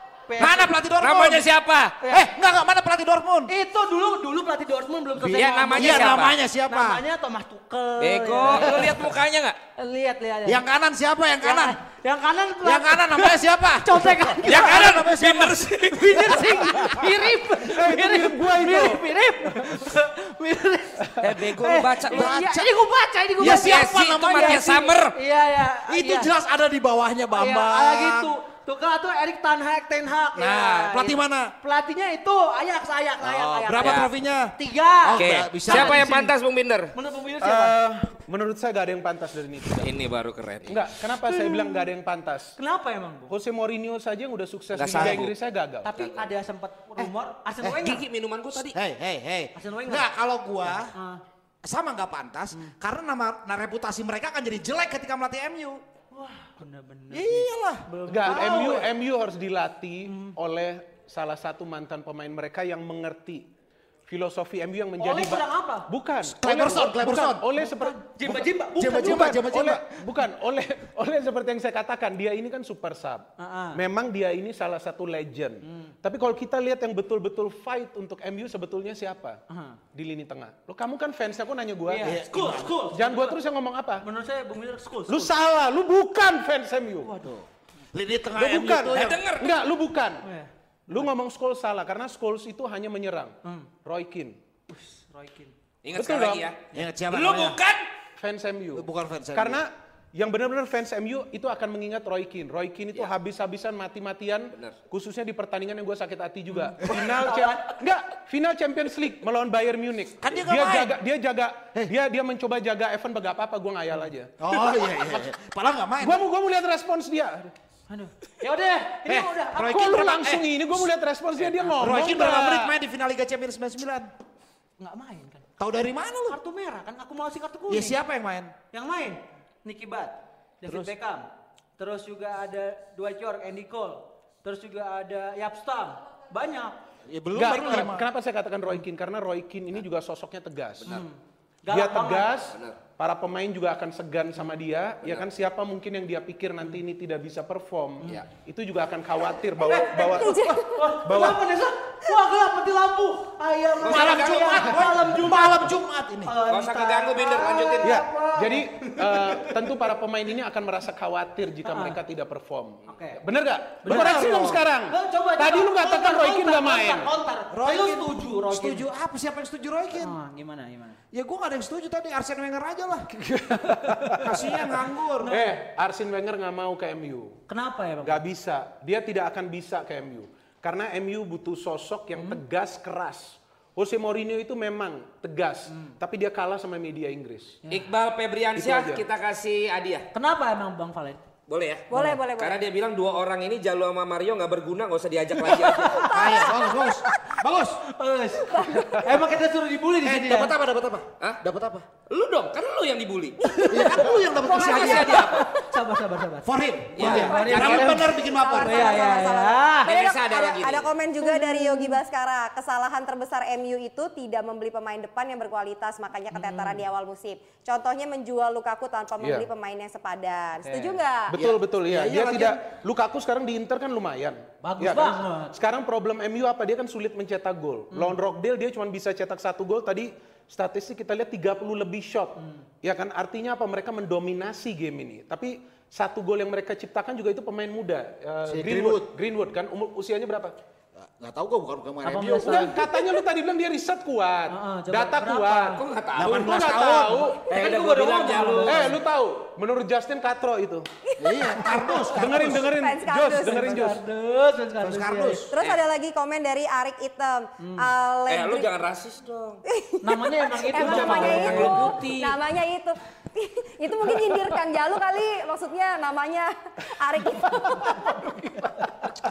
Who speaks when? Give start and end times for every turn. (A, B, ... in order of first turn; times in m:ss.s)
0:00.3-0:00.7 A
0:00.4-0:01.5 B
0:00.4-0:02.0 C
0:02.0-0:02.3 A
0:02.1-0:03.5 B
0:03.5-0:09.0 A
0:05.2-0:06.4 C
0:05.7-0:07.0 B
0:08.0-0:09.6 C
0:09.8-0:10.6 A
0:10.4-0:11.8 B
0:11.4-0:14.9 A
0:12.6-0:15.6 B
0:14.4-0:16.5 C
0:15.9-0:26.3 A
0:16.3-0:17.0 B
0:17.6-0:19.1 D
0:21.2-0:22.3 C
0:22.1-0:22.7 B
0:23.4-0:24.9 B
0:23.4-0:25.2 C
0:25.9-0:28.3 B
0:27.3-0:36.3 A
0:30.4-0:31.5 B
0:33.2-0:36.3 B
0:33.8-0:34.1 C
0:35.2-0:36.9 C
0:36.9-0:37.8 A
0:37.4-0:40.0 D
0:39.8-0:40.8 C
0:40.7-0:42.6 D
0:41.3-0:41.9 A
0:42.6-0:43.3 A
0:43.3-0:45.9 D
0:44.8-0:45.3 C
0:45.8-0:48.0 A
0:46.0-0:46.3 C
0:47.0-0:47.8 B
0:47.8-0:48.8 C
0:48.7-0:51.0 B
0:49.6-0:50.1 A
0:50.7-0:51.2 A
0:51.6-0:55.8 B
0:56.1-0:58.9 A
0:57.1-0:57.9 B
0:58.1-1:03.5 D
1:00.1-1:00.4 A
1:04.1-1:19.4 D
1:05.0-1:05.9 A
1:06.2-1:07.5 B
1:07.6-1:09.4 A
1:08.2-1:10.0 B
1:13.4-1:13.8 A
1:15.6-1:15.9 A
1:19.5-1:19.8 A
1:19.9-1:22.2 D
1:21.9-1:23.4 A
1:22.0-1:22.8 B
1:22.9-1:24.0 D
1:24.0-1:25.3 A
1:25.1-1:27.1 D
1:27.0-1:27.4 A
1:27.2-1:29.3 B
1:28.3-1:30.3 D
1:28.9-1:29.5 C
1:30.2-1:31.1 A
1:30.9-1:34.4 D
1:33.4-1:33.7 A
1:34.7-1:35.6 A
1:35.8-1:37.9 C
1:35.9-1:36.5 D
1:36.7-1:37.6 B
1:38.2-1:55.3 D
1:38.8-1:39.6 B
1:44.5-1:44.8 C
1:46.5-1:47.8 A
1:50.2-1:51.0 B
1:54.4-1:56.2 B
1:56.0-1:57.5 D
1:57.9-2:00.2 A
1:59.1-2:00.5 B
1:59.7-2:02.7 D
2:01.8-2:04.1 B
2:04.8-2:05.5 A
2:05.6-2:06.4 B
2:06.3-2:08.0 A
2:07.7-2:08.6 B
2:08.7-2:11.3 A
2:11.8-2:16.8 A
2:17.1-2:18.1 B
2:17.3-2:21.1 D
2:20.8-2:22.3 A
2:21.7-2:30.4 D
2:22.5-2:22.8 C
2:29.6-2:39.6 A
2:30.1-2:31.0 E
2:31.0-2:31.5 D
2:33.8-2:34.9 C
2:33.8-2:36.4 B
2:36.5-2:38.0 C
2:37.8-2:47.1 D
2:41.7-2:42.0 A
2:42.9-2:43.2 A
2:43.8-2:44.3 A
2:43.9-2:44.6 B
2:44.9-2:48.9 A
2:47.5-2:50.2 B
2:50.0-2:51.0 A
2:51.1-2:53.1 B
2:53.1-2:57.4 D
2:53.9-2:54.2 A
2:54.2-2:55.3 B
2:55.2-2:55.6 A
2:57.5-2:58.2 A
2:58.0-3:07.6 D
3:02.2-3:02.4 A
3:07.7-3:10.1 C
3:08.6-3:09.0 D
3:10.1-3:11.2 A
3:11.5-3:16.0 C
3:11.9-3:12.6 E
3:11.9-3:12.2 A
3:15.5-3:16.5 A
3:16.1-3:17.8 B
3:16.1-3:16.9 E
3:17.9-3:20.5 A
3:18.5-3:19.1 E
3:20.0-3:21.9 B
3:22.1-3:23.4 C
3:23.4-3:29.9 A
3:23.7-3:25.3 B
3:24.4-3:25.5 C
3:26.4-3:29.1 B
3:27.0-3:28.0 C
3:27.0-3:41.4 E
3:29.9-3:30.9 C
3:31.2-3:32.0 A
3:36.3-3:36.9 A
3:39.2-3:39.5 D
3:40.6-3:41.0 A
3:41.3-4:00.5 D
3:41.3-3:42.6 B
3:44.6-3:45.6 A
3:47.9-3:48.2 A
3:52.4-3:52.6 A
3:58.5-3:59.1 B
4:01.0-4:02.9 B
4:02.0-4:02.8 A
4:02.4-4:07.4 D
4:04.5-4:05.8 A
4:05.8-4:06.6 C
4:06.2-4:07.4 B
4:07.5-4:09.0 A
4:07.5-4:09.0 C
4:08.7-4:10.9 D
4:11.1-4:13.8 E
4:11.2-4:12.7 B
4:12.1-4:14.0 D
4:13.4-4:15.5 A
4:14.8-4:15.5 B
4:15.5-4:18.7 E
4:17.6-4:17.9 A
4:18.3-4:19.6 C
4:19.6-4:28.7 E
4:20.0-4:22.0 A
4:20.8-4:22.4 C